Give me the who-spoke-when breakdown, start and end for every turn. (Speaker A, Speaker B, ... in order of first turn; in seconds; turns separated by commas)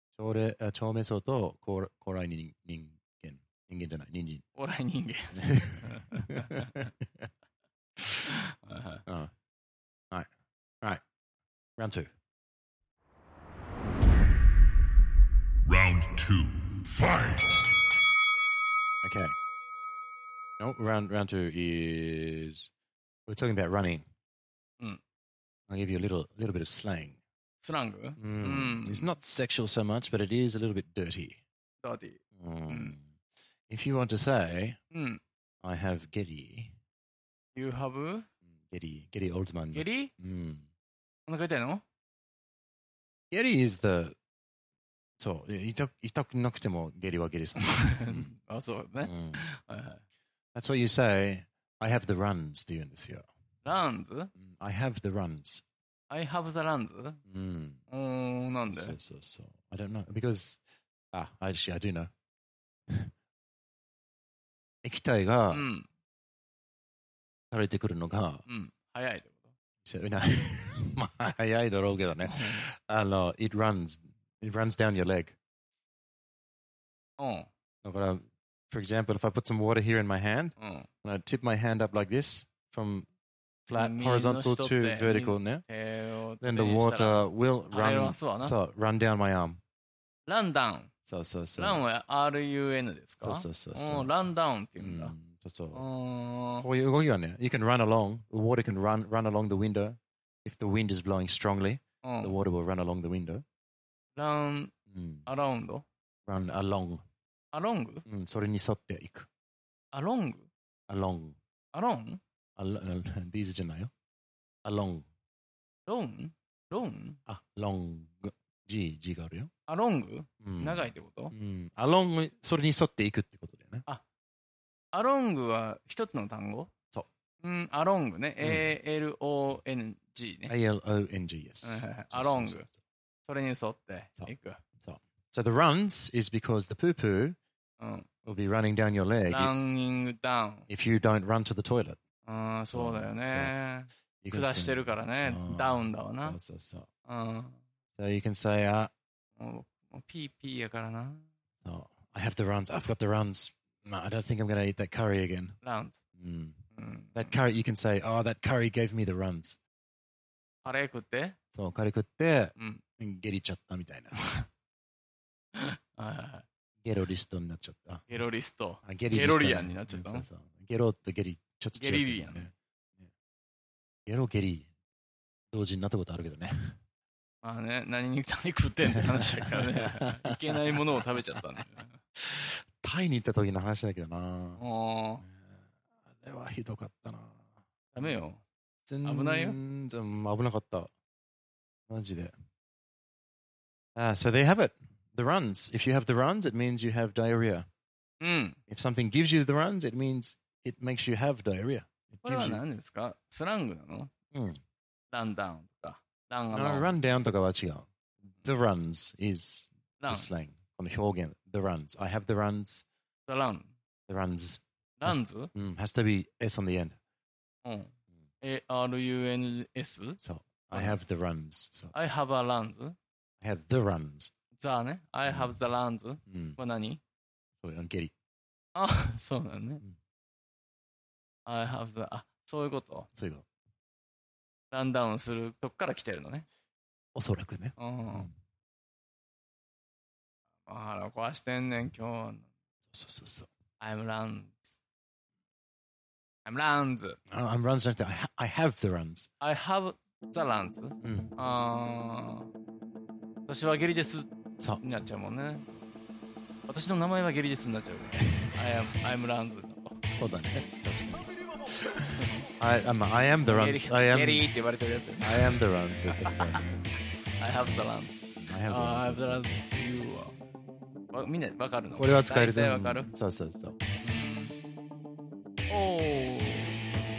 Speaker A: 0.2-4.5, Speaker B: 4.6-6.9, Speaker A: 5.4-7.3, Speaker B: 8.2-9.0, Speaker A: 11.8-12.1, Speaker C: 15.7-17.7, Speaker A: 19.0-19.4, Speaker A: 20.6-22.7, Speaker A: 23.3-24.1, Speaker A: 25.7-27.2, Speaker B: 27.6-29.1, Speaker A: 28.2-31.4, Speaker B: 31.8-33.0, Speaker A: 32.4-33.2, Speaker A: 33.7-34.8, Speaker B: 34.9-35.2, Speaker A: 35.6-36.7, Speaker B: 37.5-38.3, Speaker A: 38.5-40.7, Speaker B: 39.7-40.1, Speaker B: 41.3-41.8, Speaker A: 43.3-44.2, Speaker A: 45.2-48.3, Speaker B: 47.6-50.0, Speaker A: 49.0-49.4, Speaker A: 50.5-53.2, Speaker B: 53.6-54.3, Speaker A: 54.4-55.6, Speaker B: 56.1-57.2, Speaker A: 57.3-57.8, Speaker B: 57.9-59.0, Speaker A: 58.7-60.6, Speaker A: 61.1-62.1, Speaker A: 64.8-65.6, Speaker B: 65.5-65.9, Speaker A: 67.5-68.4, Speaker B: 68.5-69.5, Speaker A: 69.8-75.4, Speaker B: 72.2-72.6, Speaker B: 77.2-77.5, Speaker A: 77.8-83.1, Speaker B: 80.6-80.9, Speaker A: 83.7-85.6, Speaker B: 83.7-88.6, Speaker A: 86.4-89.6, Speaker B: 90.3-90.9, Speaker A: 91.1-91.8, Speaker B: 91.6-95.2, Speaker A: 93.2-94.2, Speaker A: 94.8-95.8, Speaker B: 95.7-96.7, Speaker A: 96.6-103.4, Speaker B: 102.0-102.4, Speaker B: 104.2-104.7, Speaker A: 104.9-105.3, Speaker B: 105.3-105.8, Speaker A: 106.3-107.0, Speaker B: 107.5-108.0, Speaker A: 108.1-109.3, Speaker B: 109.9-110.5, Speaker A: 110.9-111.4, Speaker B: 111.7-112.2, Speaker A: 112.6-113.9, Speaker A: 114.7-115.1, Speaker B: 115.9-117.2, Speaker A: 117.3-119.5, Speaker B: 119.7-121.3, Speaker A: 120.4-123.8, Speaker B: 124.9-126.7, Speaker B: 127.4-130.5, Speaker A: 128.4-128.7, Speaker A: 130.5-132.8, Speaker B: 131.6-132.7, Speaker B: 133.3-134.6, Speaker A: 134.2-137.4, Speaker B: 137.8-138.1, Speaker A: 138.2-139.5, Speaker B: 139.3-140.7, Speaker A: 140.7-142.0, Speaker B: 142.2-146.4, Speaker A: 142.7-143.5, Speaker A: 144.2-146.9, Speaker B: 147.1-147.6, Speaker A: 148.0-148.9, Speaker B: 149.4-151.2, Speaker A: 151.6-155.6, Speaker B: 155.6-156.0, Speaker A: 156.2-156.6, Speaker B: 156.8-157.4, Speaker A: 157.2-159.6, Speaker B: 160.6-161.4, Speaker A: 161.5-164.3, Speaker B: 162.6-162.8, Speaker B: 165.6-166.4, Speaker A: 166.8-168.1, Speaker B: 168.1-170.3, Speaker A: 168.8-173.1, Speaker B: 171.8-172.4, Speaker A: 174.1-174.7, Speaker A: 175.5-176.8, Speaker B: 177.4-182.0, Speaker A: 178.8-181.0, Speaker A: 182.2-184.6, Speaker B: 184.6-185.2, Speaker A: 186.1-187.5, Speaker B: 187.9-188.4, Speaker A: 188.9-190.9, Speaker B: 189.0-189.6, Speaker A: 191.9-192.3, Speaker A: 194.0-197.7, Speaker B: 198.2-198.6, Speaker A: 198.7-202.6, Speaker B: 202.2-204.1, Speaker A: 204.3-204.6, Speaker B: 205.1-207.0, Speaker A: 206.5-212.8, Speaker B: 210.0-210.3, Speaker B: 213.3-213.7, Speaker A: 214.1-217.0, Speaker B: 215.0-215.5, Speaker B: 217.7-220.2, Speaker A: 220.2-221.9, Speaker B: 220.7-221.0, Speaker B: 221.9-223.0, Speaker A: 223.4-224.3, Speaker B: 224.5-227.0, Speaker A: 225.2-225.6, Speaker A: 226.3-226.6, Speaker A: 227.6-228.1, Speaker B: 228.8-229.8, Speaker B: 231.5-233.1, Speaker A: 233.2-233.5, Speaker B: 234.7-236.5, Speaker A: 237.2-238.3, Speaker B: 237.8-238.3, Speaker B: 240.7-242.5, Speaker A: 242.9-243.5, Speaker B: 243.8-244.8, Speaker B: 246.5-247.2, Speaker A: 247.3-249.3, Speaker B: 249.4-252.5, Speaker A: 251.0-251.3, Speaker B: 253.5-254.3, Speaker B: 254.8-255.7, Speaker B: 256.7-260.0, Speaker A: 260.0-264.5, Speaker B: 263.5-265.6, Speaker A: 265.2-266.9, Speaker B: 266.2-266.6, Speaker B: 267.4-270.4, Speaker A: 268.4-269.6, Speaker B: 271.1-273.1, Speaker A: 272.0-273.8, Speaker B: 274.0-274.6, Speaker B: 275.7-276.8